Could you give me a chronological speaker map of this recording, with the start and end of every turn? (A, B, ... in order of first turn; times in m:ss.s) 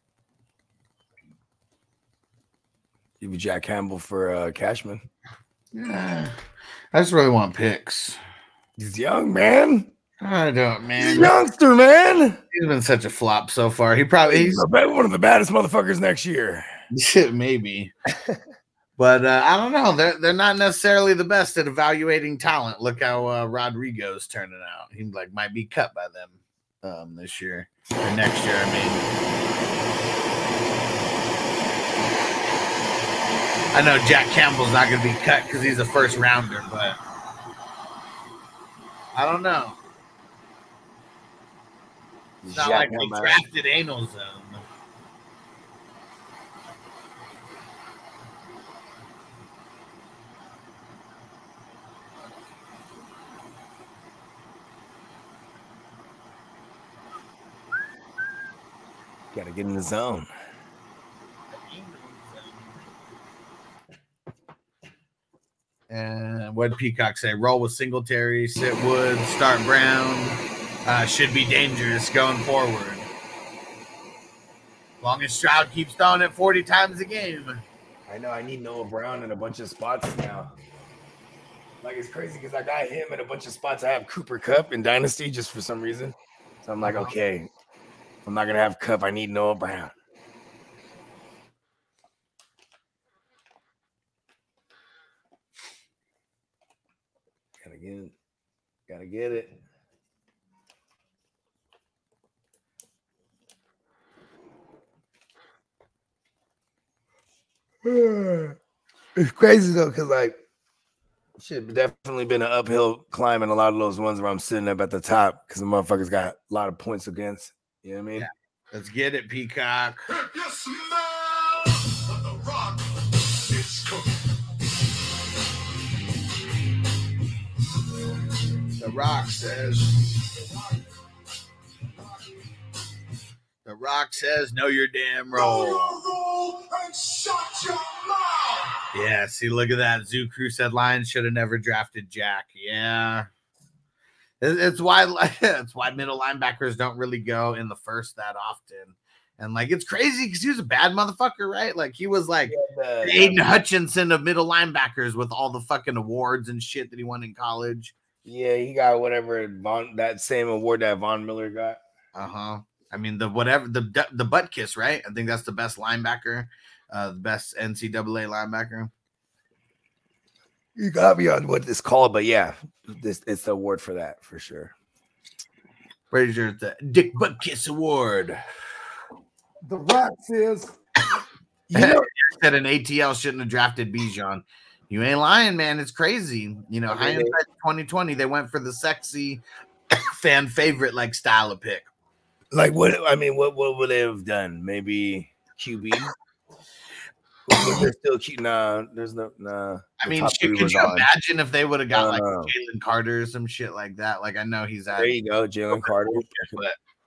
0:03.2-0:05.0 A
0:05.7-0:06.4 B
0:06.9-0:08.2 B
0:08.8-0:09.9 A
0:10.2-0:11.3 B
0:11.0-0:12.4 A
0:12.5-0:14.6 B
0:14.2-0:16.6 A
0:16.9-0:17.9 B
0:19.0-0:29.0 B
0:33.7-0:37.0 B
0:39.1-0:39.8 B
0:42.4-0:43.4 A
0:42.5-0:44.6 B
0:59.3-1:00.3 A
1:01.5-1:02.5 B
1:05.9-1:13.1 B
1:15.0-1:17.6 B
1:18.1-1:20.5 A
1:21.8-1:27.5 A
1:26.8-1:27.1 B
1:28.2-1:29.9 A
1:37.6-1:38.1 A
1:38.9-1:39.5 A
1:47.8-1:48.6 A
1:49.2-1:50.4 A
1:51.4-1:58.2 A
1:58.2-2:00.1 B
2:00.1-2:04.4 C
2:08.8-2:09.8 B
2:09.0-2:10.9 C
2:11.9-2:12.5 C
2:13.6-2:16.0 B
2:15.3-2:18.8 C
2:18.9-2:23.3 B
2:24.4-2:37.9 B
2:32.5-2:33.4 A
2:38.2-2:41.8 A
2:42.1-2:48.9 B
2:50.8-2:54.7 A
2:56.1-2:58.4 B
2:59.6-3:00.8 A
3:01.7-3:02.1 A
3:01.7-3:09.4 B
3:06.9-3:07.4 A
3:09.9-3:11.9 B
3:12.5-3:16.1 A
3:17.5-3:21.1 A
3:20.0-3:25.2 B
3:21.9-3:22.5 A
3:25.0-3:26.6 A
3:25.8-3:26.8 B